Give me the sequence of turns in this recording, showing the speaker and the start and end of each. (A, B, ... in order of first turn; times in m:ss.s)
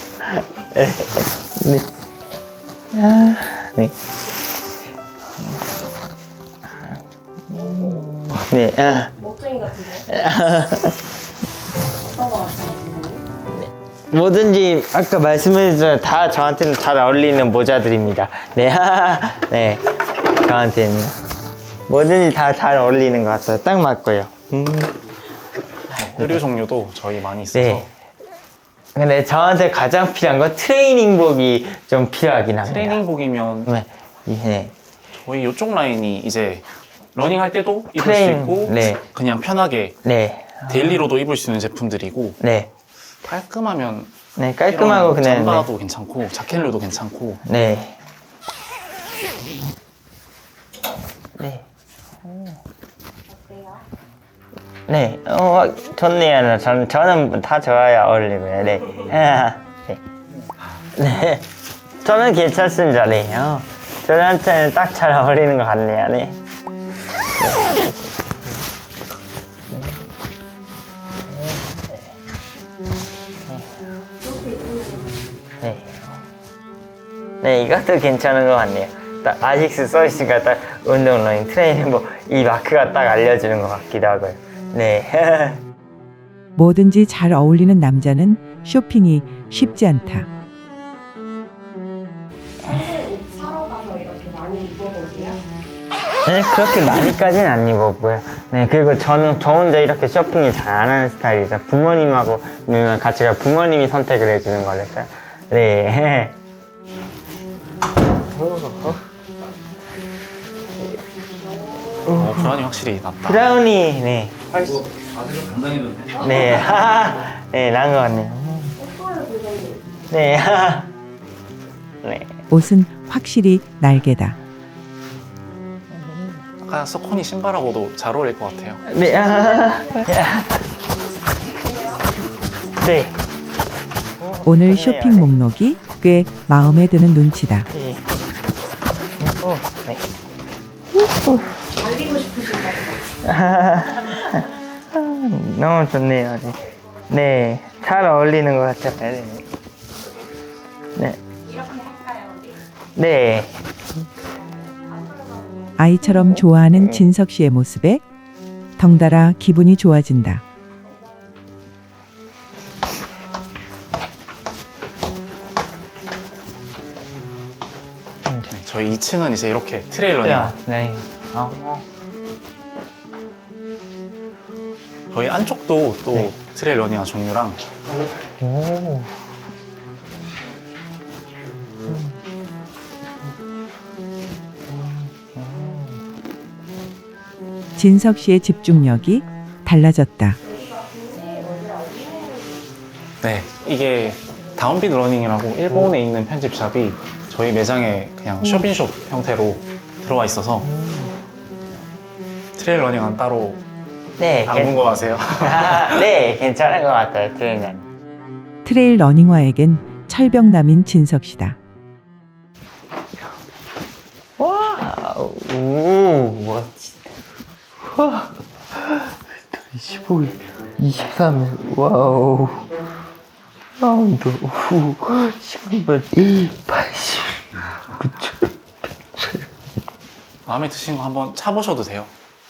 0:00.2-0:01.9 A
0:02.9-0:04.0 A
0:07.5-0:09.1 A
0:09.2-0:10.1 B
0:10.1-0:11.0 A
0:12.0-0:13.2 B
0:14.1-0:19.8 A
0:20.4-0:21.2 A
0:21.9-0:24.9 A
0:25.9-0:27.9 C
0:27.5-0:27.9 A
0:29.0-0:33.0 A
0:32.6-0:33.7 C
0:33.6-0:34.7 A
0:35.2-0:40.0 C
0:38.0-0:39.0 A
0:40.0-0:41.1 A
0:40.7-0:42.4 C
0:42.4-0:42.7 A
0:43.2-0:44.2 C
0:44.4-0:45.7 A
0:44.7-0:47.4 C
0:47.4-0:48.0 A
0:51.4-0:51.7 A
0:52.2-0:52.6 A
0:53.3-0:53.8 B
0:54.9-1:00.0 A
1:01.0-1:01.5 A
1:02.0-1:06.4 A
1:07.4-1:07.9 A
1:09.7-1:10.0 A
1:11.3-1:12.0 A
1:14.2-1:15.2 B
1:15.6-1:16.2 A
1:17.4-1:25.6 A
1:26.6-1:30.3 D
1:32.6-1:35.4 B
1:36.2-1:46.4 A
1:48.4-1:49.0 A
1:51.1-1:52.2 B
1:52.1-1:52.6 A
1:52.2-1:53.5 C
1:53.2-1:54.8 A
1:54.5-1:56.5 E
1:56.1-1:57.0 B
1:56.2-1:58.7 A
1:58.8-2:00.0 B
2:00.1-2:00.9 A
2:02.0-2:02.4 A
2:02.5-2:04.4 D
2:06.0-2:06.4 A
2:06.6-2:08.8 C
2:08.8-2:10.6 A
2:09.0-2:12.1 B
2:12.8-2:13.1 A
2:14.2-2:15.3 A
2:14.4-2:17.7 D
2:17.7-2:18.0 A
2:19.2-2:20.0 A
2:21.0-2:21.6 A
2:21.8-2:23.1 B
2:23.2-2:26.6 A
2:27.1-2:29.5 A
2:31.4-2:32.6 B
2:33.0-2:33.5 A
2:34.2-2:36.3 B
2:35.8-2:38.0 D
2:36.1-2:37.1 A
2:38.8-2:40.4 D
2:48.3-2:48.5 A
2:48.5-2:50.5 C
2:50.2-2:51.8 A
2:55.1-2:57.6 C
2:58.4-2:59.2 A
3:01.9-3:02.2 A
3:04.7-3:05.9 A
3:07.8-3:10.4 D
3:10.4-3:12.7 B
3:13.2-3:20.7 C
3:13.4-3:14.7 B
3:20.6-3:21.2 A
3:22.6-3:23.6 C
3:24.2-3:24.8 A
3:24.4-3:26.1 C
3:25.4-3:27.8 A
3:28.6-3:31.6 D
3:34.4-3:37.1 A
3:37.9-3:42.7 A
3:43.8-3:48.5 A
3:49.2-3:49.5 A
3:50.5-3:52.1 C